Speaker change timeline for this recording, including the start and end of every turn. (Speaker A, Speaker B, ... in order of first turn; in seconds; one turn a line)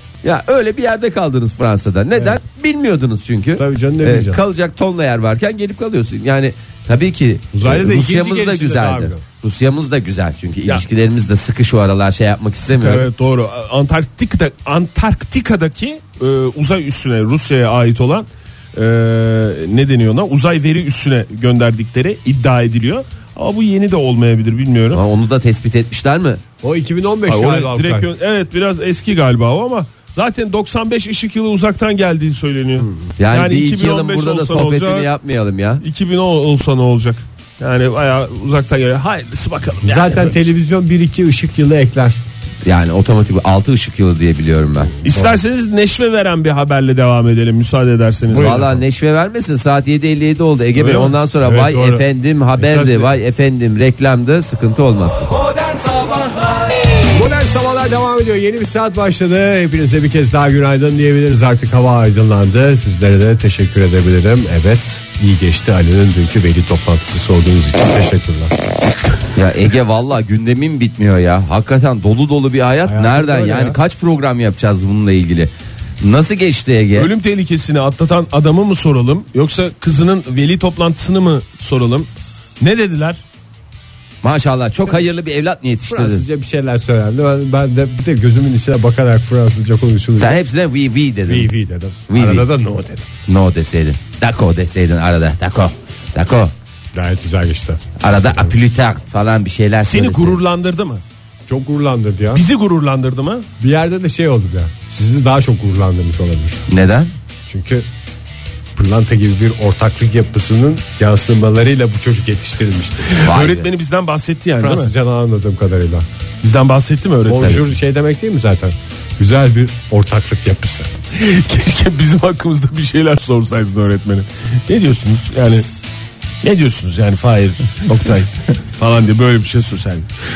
Speaker A: 0.2-13.1
Speaker B: 3.6-4.4
Speaker B: 7.5-9.2
Speaker C: 12.6-25.0
Speaker A: 24.9-26.4
Speaker B: 26.6-28.1
Speaker C: 27.3-35.1
Speaker A: 33.2-35.8
Speaker C: 35.8-40.4
Speaker B: 39.8-42.2
Speaker A: 42.6-44.9
Speaker B: 45.0-45.4
Speaker C: 45.0-48.6
Speaker B: 48.3-48.8
Speaker A: 48.4-55.3
Speaker C: 50.8-51.1
Speaker B: 51.4-53.1
Speaker B: 57.0-68.5
Speaker A: 69.3-77.1
Speaker B: 72.8-73.8
Speaker C: 77.0-82.1
Speaker C: 82.6-83.2
Speaker A: 84.2-86.2
Speaker B: 85.9-90.4
Speaker A: 90.2-91.5
Speaker B: 91.3-93.1
Speaker A: 92.1-92.5
Speaker A: 93.3-96.5
Speaker B: 96.9-98.5
Speaker A: 98.0-100.4
Speaker C: 99.8-101.0
Speaker B: 101.5-102.4
Speaker C: 102.3-103.5
Speaker B: 103.6-106.6
Speaker A: 106.7-107.1
Speaker B: 107.5-107.9
Speaker B: 108.7-113.2
Speaker C: 113.1-114.9
Speaker A: 113.2-113.7
Speaker B: 114.6-116.1
Speaker C: 116.4-117.7
Speaker B: 117.2-120.9
Speaker C: 121.1-125.7
Speaker C: 126.4-130.1